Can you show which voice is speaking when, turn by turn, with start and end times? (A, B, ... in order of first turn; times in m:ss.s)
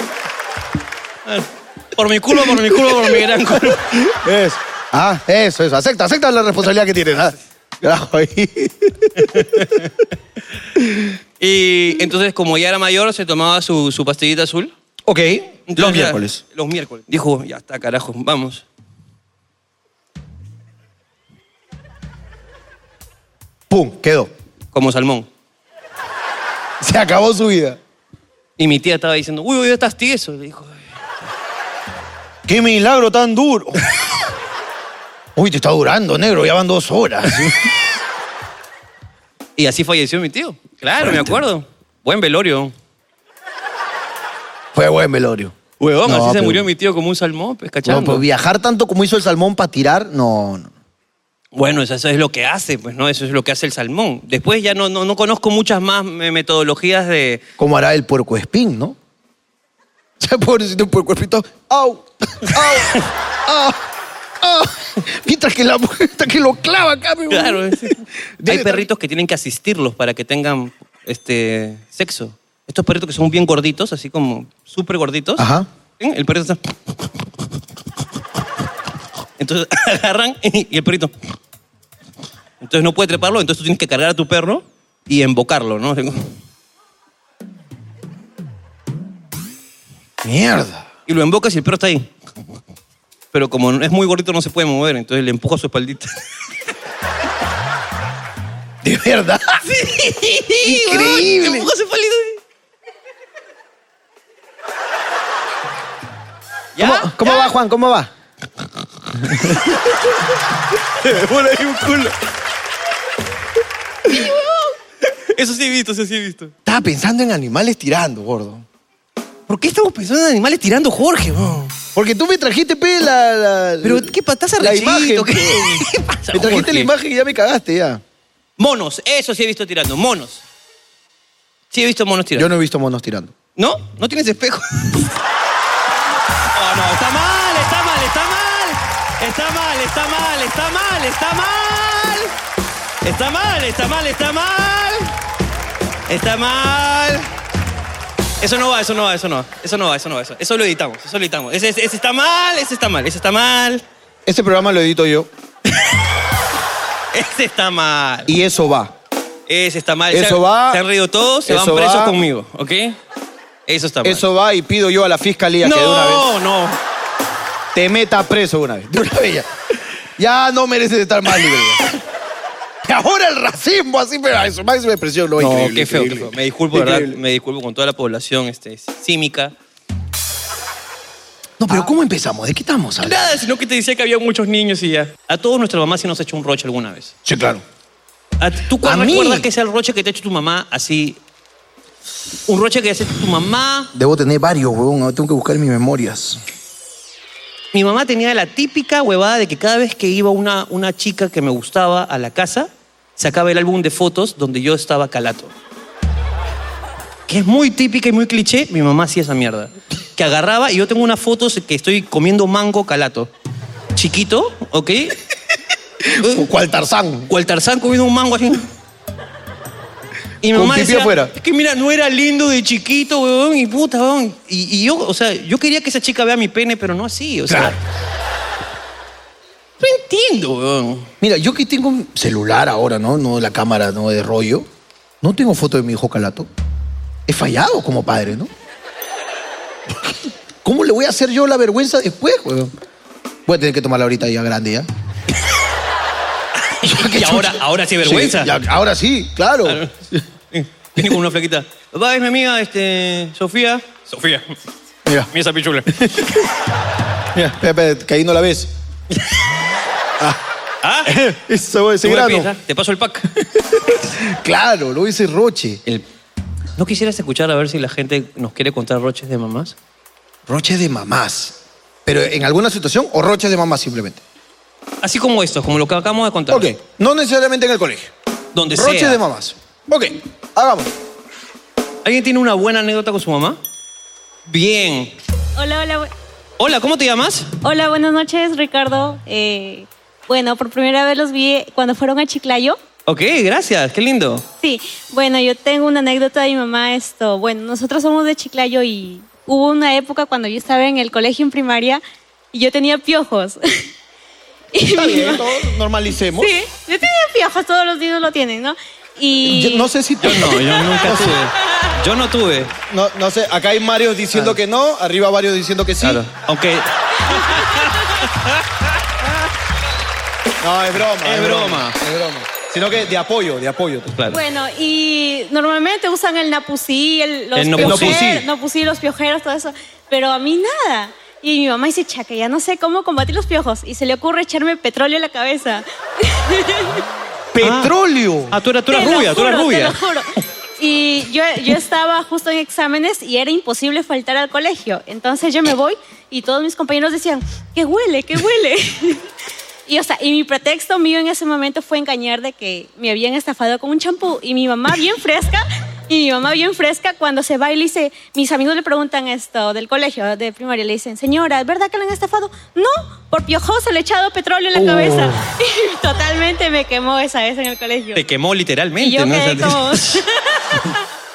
0:01.3-0:03.9 A
0:02.6-0:03.1 B
0:03.7-0:09.5 B
0:09.2-0:09.9 A
0:11.4-0:14.7 A
0:15.0-0:16.4 B
0:15.7-0:18.6 A
0:23.7-0:24.3 B
0:24.7-0:25.3 A
0:26.8-0:27.8 B
0:28.6-0:30.8 A
0:32.5-0:33.9 B
0:35.4-0:37.7 B
0:39.6-0:42.7 A
0:41.0-0:41.3 B
0:44.7-0:46.7 B
0:45.8-0:48.2 A
0:47.8-0:50.7 B
0:51.5-0:57.4 A
0:57.6-0:59.0 B
1:00.2-1:03.8 B
1:04.4-1:08.9 B
1:07.3-1:15.5 A
1:15.4-1:15.7 B
1:16.0-1:16.6 A
1:19.4-1:21.1 A
1:22.6-1:26.3 A
1:30.2-1:30.9 B
1:31.1-1:32.1 A
1:33.3-1:36.1 A
1:38.8-1:39.6 B
1:39.7-1:42.4 A
1:40.6-1:41.7 B
1:46.8-1:47.5 A
1:46.8-1:48.1 B
1:49.3-1:49.6 B
1:51.0-1:52.1 B
1:51.4-1:51.8 A
1:54.1-1:54.4 A
1:55.3-1:56.5 A
1:56.6-1:58.6 B
1:59.5-2:01.7 A
2:02.0-2:08.0 B
2:03.8-2:06.9 A
2:08.6-2:10.4 A
2:11.7-2:12.5 A
2:12.4-2:13.3 B
2:13.6-2:15.0 A
2:16.6-2:22.3 A
2:23.0-2:25.1 A
2:26.1-2:27.3 A
2:28.4-2:33.8 A
2:34.3-2:35.3 B
2:37.1-2:38.3 A
2:38.3-2:39.0 B
2:39.5-2:43.0 A
2:40.1-2:40.8 B
2:41.4-2:42.2 B
2:43.7-2:44.2 A
2:44.0-2:46.3 B
2:45.6-2:46.8 A
2:47.7-2:49.5 B
2:50.2-2:51.9 B
2:52.8-2:57.2 B
2:55.4-2:59.5 A
3:01.6-3:03.2 B
3:03.0-3:07.1 A
3:07.2-3:07.6 B
3:08.4-3:11.2 A
3:08.8-3:09.5 B
3:12.5-3:13.9 A
3:13.9-3:16.4 B
3:17.7-3:25.5 A
3:27.3-3:33.3 A
3:34.0-3:35.2 A
3:36.1-3:37.3 B
3:37.3-3:38.6 A
3:40.4-3:47.8 A
3:40.5-3:41.3 B
3:47.5-3:47.8 B
3:49.8-3:51.1 A
3:51.2-3:54.7 B
3:55.2-3:56.5 B
3:57.3-3:58.5 B
3:59.9-4:02.7 B
4:03.5-4:04.9 B
4:06.8-4:08.5 A
4:06.8-4:10.2 B
4:09.6-4:09.9 A
4:10.5-4:14.5 A
4:15.3-4:15.9 A
4:15.9-4:16.4 B
4:17.3-4:18.7 B
4:20.8-4:21.1 A
4:21.1-4:22.5 B
4:22.0-4:23.3 A
4:23.6-4:25.8 B
4:26.8-4:29.8 A
4:30.5-4:34.2 B
4:35.0-4:36.7 A
4:36.5-4:38.1 B
4:38.5-4:39.2 A
4:38.7-4:40.9 B
4:42.0-4:43.6 A
4:44.5-4:45.1 A
4:45.6-4:46.1 C
4:46.6-4:47.5 A
4:47.6-4:52.8 C
4:53.1-4:54.4 A
4:54.6-5:02.0 C
5:02.5-5:03.6 C
5:04.7-5:05.8 C
5:04.8-5:06.5 B
5:06.4-5:09.9 C
5:09.4-5:11.4 B
5:10.2-5:12.7 A
5:12.9-5:16.2 B
5:16.0-5:18.6 A
5:20.6-5:24.2 B
5:21.2-5:22.0 A
5:24.1-5:24.4 A
5:24.3-5:37.0 C
5:27.6-5:28.2 A
5:27.8-5:28.5 B
5:37.5-5:38.5 B
5:37.6-5:37.9 A
5:38.5-5:40.0 A
5:38.9-5:40.3 C
5:40.8-5:49.2 C
5:49.9-6:08.2 C
6:04.7-6:05.4 A
6:08.1-6:10.2 A
6:09.0-6:11.0 C